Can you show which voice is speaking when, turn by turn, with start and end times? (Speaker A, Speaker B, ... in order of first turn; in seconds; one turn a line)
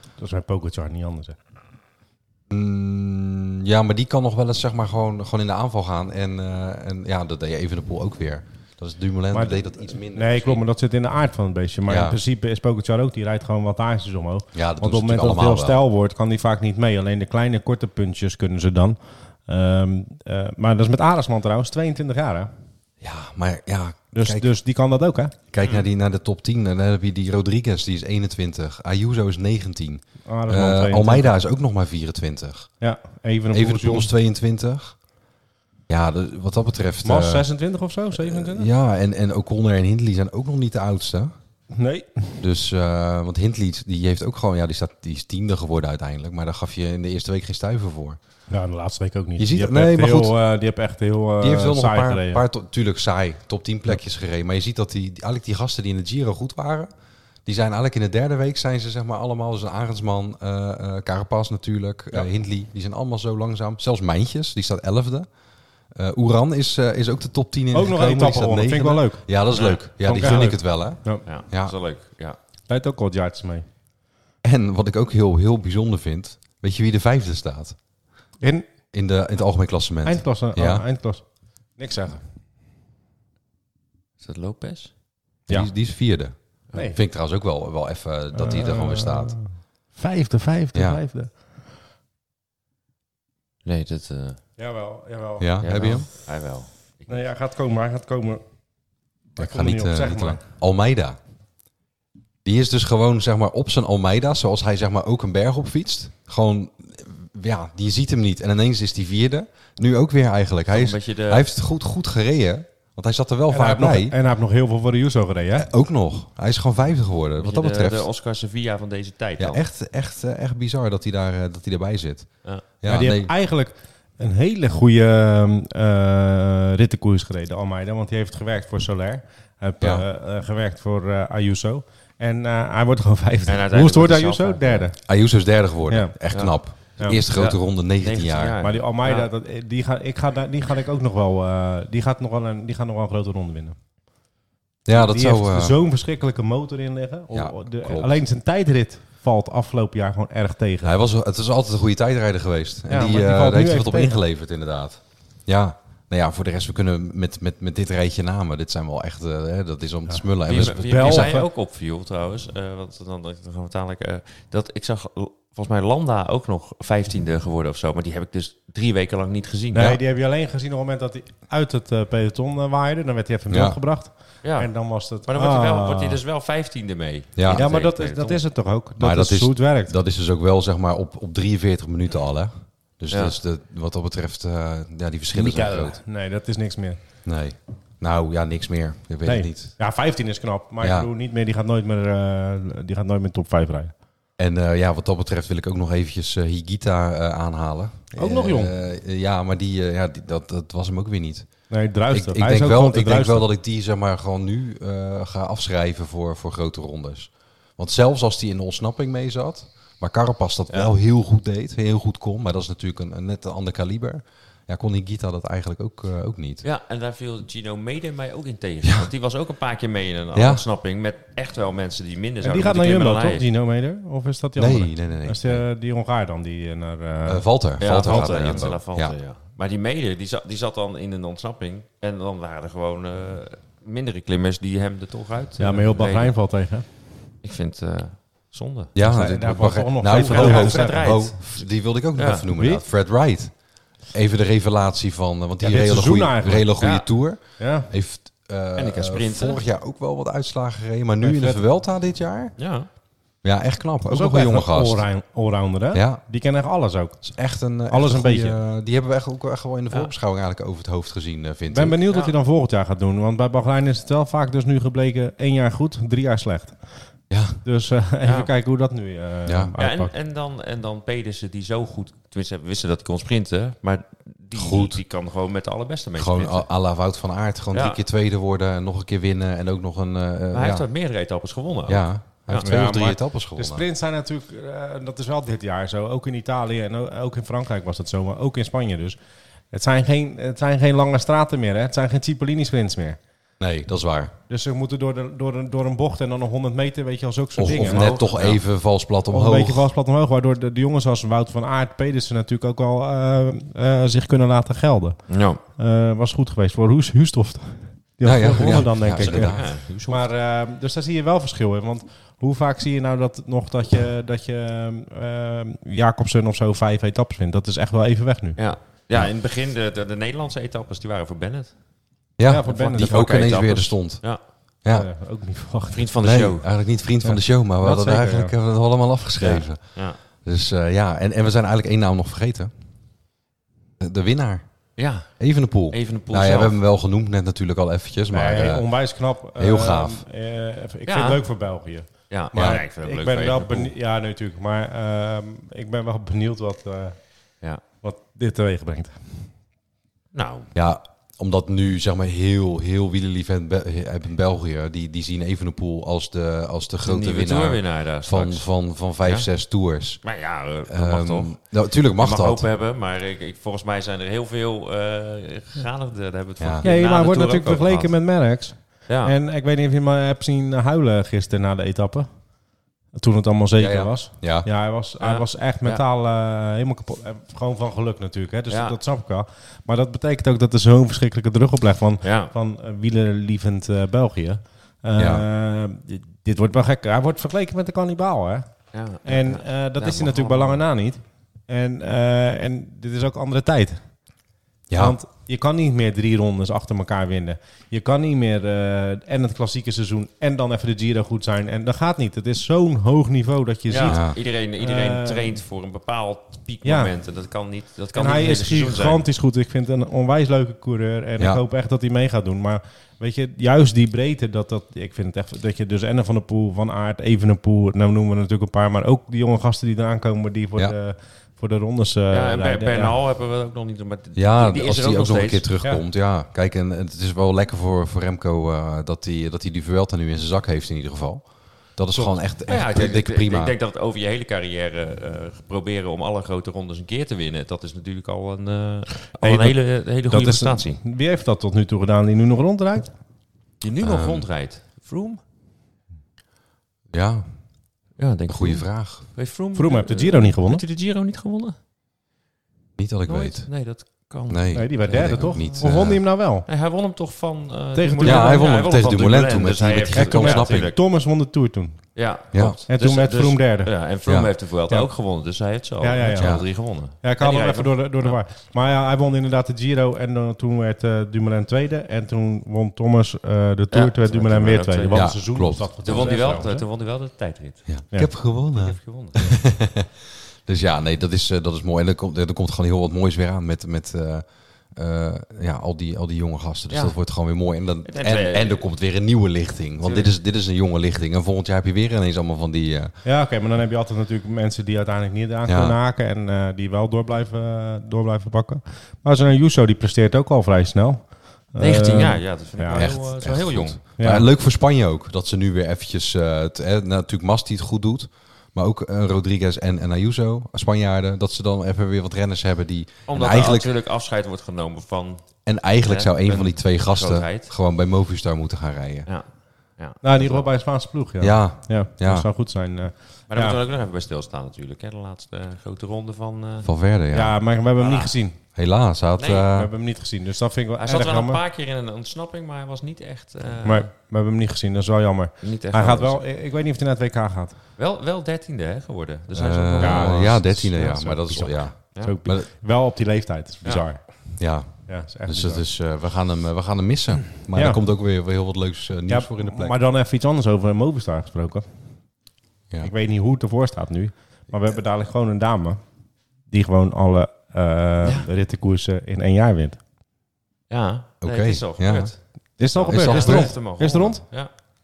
Speaker A: 0.2-1.4
Speaker B: 2.5-10.6
Speaker A: 9.3-22.5
Speaker B: 11.9-12.2
Speaker B: 14.5-15.8
Speaker B: 23.0-24.5
Speaker A: 24.1-25.4
Speaker B: 25.5-32.7
Speaker A: 30.2-31.4
Speaker A: 32.8-34.1
Speaker B: 33.5-35.0
Speaker B: 35.9-37.5
Speaker A: 37.0-38.7
Speaker B: 38.2-41.3
Speaker A: 41.7-42.4
Speaker B: 42.4-48.2
Speaker A: 48.5-52.4
Speaker B: 49.4-50.4
Speaker B: 51.4-56.9
Speaker B: 57.5-65.3
Speaker B: 65.9-71.8
Speaker A: 67.7-69.3
Speaker C: 69.5-69.8
Speaker A: 70.0-71.2
Speaker C: 71.2-72.4
Speaker A: 72.7-73.7
Speaker B: 74.4-77.8
Speaker A: 78.4-78.7
Speaker B: 78.9-80.8
Speaker A: 80.0-81.2
Speaker A: 81.8-82.2
Speaker C: 84.2-84.9
Speaker B: 85.5-89.4
Speaker A: 86.7-87.0
Speaker A: 88.3-91.5
Speaker B: 90.7-91.0
Speaker C: 93.7-94.4
Speaker A: 94.6-95.5
Speaker B: 95.4-96.1
Speaker C: 95.6-97.2
Speaker A: 97.1-98.4
Speaker A: 99.4-100.4
Speaker B: 99.4-101.2
Speaker B: 102.5-114.2
Speaker C: 110.7-111.5
Speaker A: 113.5-115.7
Speaker B: 115.6-118.1
Speaker C: 117.4-119.6
Speaker B: 119.4-123.3
Speaker A: 122.8-135.0
Speaker C: 133.5-134.9
Speaker B: 135.1-138.6
Speaker A: 135.9-136.2
Speaker C: 137.3-139.3
Speaker A: 138.6-143.8
Speaker B: 144.9-145.8
Speaker A: 144.9-150.9
Speaker B: 147.3-148.2
Speaker B: 150.8-161.3
Speaker A: 152.9-154.2
Speaker A: 160.1-161.5
Speaker C: 160.5-170.0
Speaker A: 169.7-176.2
Speaker B: 173.5-173.8
Speaker C: 174.4-178.4
Speaker B: 177.4-177.7
Speaker A: 177.5-179.9
Speaker B: 179.0-186.0
Speaker A: 185.3-187.0
Speaker B: 187.2-189.8
Speaker A: 189.2-193.9
Speaker B: 190.8-191.1
Speaker B: 194.4-201.5
Speaker A: 198.2-198.7
Speaker A: 201.7-203.5
Speaker B: 202.1-216.7
Speaker C: 216.6-223.5
Speaker B: 220.3-220.6
Speaker A: 222.4-227.4
Speaker B: 224.6-225.6
Speaker B: 227.3-229.2
Speaker C: 227.8-236.3
Speaker A: 235.6-236.9
Speaker C: 237.4-238.9
Speaker B: 238.9-252.6
Speaker A: 239.0-241.2
Speaker C: 240.1-242.5
Speaker A: 242.6-242.8
Speaker A: 245.6-246.7
Speaker C: 246.8-247.1
Speaker A: 247.6-247.9
Speaker C: 248.8-249.6
Speaker A: 251.2-251.6
Speaker C: 252.6-252.9
Speaker B: 253.4-255.0
Speaker A: 254.1-257.2
Speaker B: 255.9-256.2
Speaker B: 257.2-262.0
Speaker A: 257.9-258.6
Speaker A: 261.7-266.8
Speaker B: 267.3-267.6
Speaker A: 267.6-270.1
Speaker C: 268.2-268.5
Speaker B: 269.5-269.7
Speaker C: 269.8-276.7
Speaker B: 274.6-275.0
Speaker B: 276.2-280.9
Speaker C: 277.7-278.0
Speaker C: 280.5-282.7
Speaker B: 281.9-283.8
Speaker A: 282.6-289.2
Speaker A: 289.7-293.2
Speaker B: 293.6-294.3
Speaker A: 294.5-298.2
Speaker B: 297.6-299.9
Speaker C: 297.7-298.6
Speaker A: 299.3-305.2
Speaker C: 305.3-305.6
Speaker A: 305.7-318.6
Speaker B: 308.2-309.9
Speaker C: 308.6-310.2
Speaker C: 318.6-321.7
Speaker B: 322.4-324.2
Speaker A: 322.4-323.5
Speaker C: 322.7-324.4
Speaker B: 324.8-325.1
Speaker A: 324.9-326.1
Speaker C: 325.9-326.7
Speaker B: 326.2-332.7
Speaker A: 327.2-328.5
Speaker C: 329.4-330.2
Speaker B: 334.0-334.7
Speaker C: 335.0-336.8
Speaker B: 335.4-338.9
Speaker A: 338.3-347.2
Speaker B: 339.6-340.2
Speaker C: 341.1-341.4
Speaker C: 342.3-343.9
Speaker B: 342.5-342.8
Speaker A: 348.0-349.5
Speaker C: 350.3-350.7
Speaker B: 350.7-360.2
Speaker C: 357.1-358.7
Speaker C: 359.2-359.5
Speaker C: 360.2-361.6
Speaker B: 360.9-362.6
Speaker C: 362.2-368.1
Speaker B: 366.6-366.9
Speaker A: 366.8-372.3
Speaker C: 369.1-369.4
Speaker A: 373.1-394.0
Speaker B: 373.8-374.7
Speaker C: 375.2-376.0
Speaker C: 378.7-379.0
Speaker C: 382.2-382.5
Speaker B: 385.2-385.4
Speaker C: 388.9-390.8
Speaker B: 394.9-395.2
Speaker A: 394.9-404.2
Speaker C: 403.9-409.2
Speaker B: 404.1-404.4
Speaker A: 404.8-405.6
Speaker A: 406.8-407.1
Speaker A: 408.1-423.2
Speaker C: 422.3-425.7
Speaker B: 424.4-433.8
Speaker C: 432.7-441.0
Speaker A: 439.4-443.1
Speaker C: 443.8-445.4
Speaker B: 444.0-444.4
Speaker B: 447.1-447.5
Speaker C: 448.2-451.8
Speaker B: 448.5-449.2
Speaker A: 449.8-450.8
Speaker B: 453.0-453.7
Speaker C: 453.3-456.1
Speaker B: 454.5-456.2
Speaker A: 454.7-456.7
Speaker C: 456.6-461.0
Speaker A: 457.9-458.6
Speaker B: 458.2-460.9
Speaker A: 460.1-462.1
Speaker C: 462.1-468.4
Speaker B: 462.5-462.8
Speaker A: 462.9-463.9
Speaker B: 464.3-464.5
Speaker A: 466.0-466.6
Speaker A: 467.2-476.9
Speaker C: 473.9-477.9
Speaker B: 475.1-476.5
Speaker B: 477.9-493.2
Speaker C: 478.7-479.4
Speaker C: 486.9-487.2
Speaker C: 488.1-488.8
Speaker C: 490.0-490.3
Speaker A: 493.2-503.1
Speaker B: 495.7-496.0
Speaker C: 501.8-504.0
Speaker B: 502.9-513.9
Speaker A: 504.2-504.5
Speaker C: 513.3-517.7
Speaker B: 515.6-519.3
Speaker C: 519.3-520.7
Speaker A: 520.2-523.8
Speaker B: 521.4-522.5
Speaker C: 523.5-526.9
Speaker B: 526.8-527.6
Speaker A: 527.3-528.6
Speaker C: 528.0-528.3
Speaker B: 528.8-529.9
Speaker C: 529.4-529.7
Speaker A: 529.7-531.6
Speaker C: 531.0-534.1
Speaker A: 533.8-537.8
Speaker C: 535.6-536.4
Speaker C: 538.0-541.6
Speaker B: 539.5-542.7
Speaker A: 540.0-545.8
Speaker B: 544.6-550.0
Speaker A: 547.7-548.0
Speaker A: 549.3-551.9
Speaker A: 553.0-556.0
Speaker A: 556.7-560.0
Speaker C: 558.2-558.5
Speaker C: 560.9-562.4
Speaker B: 561.4-562.3
Speaker A: 562.8-564.5
Speaker C: 562.9-564.7
Speaker B: 563.0-563.8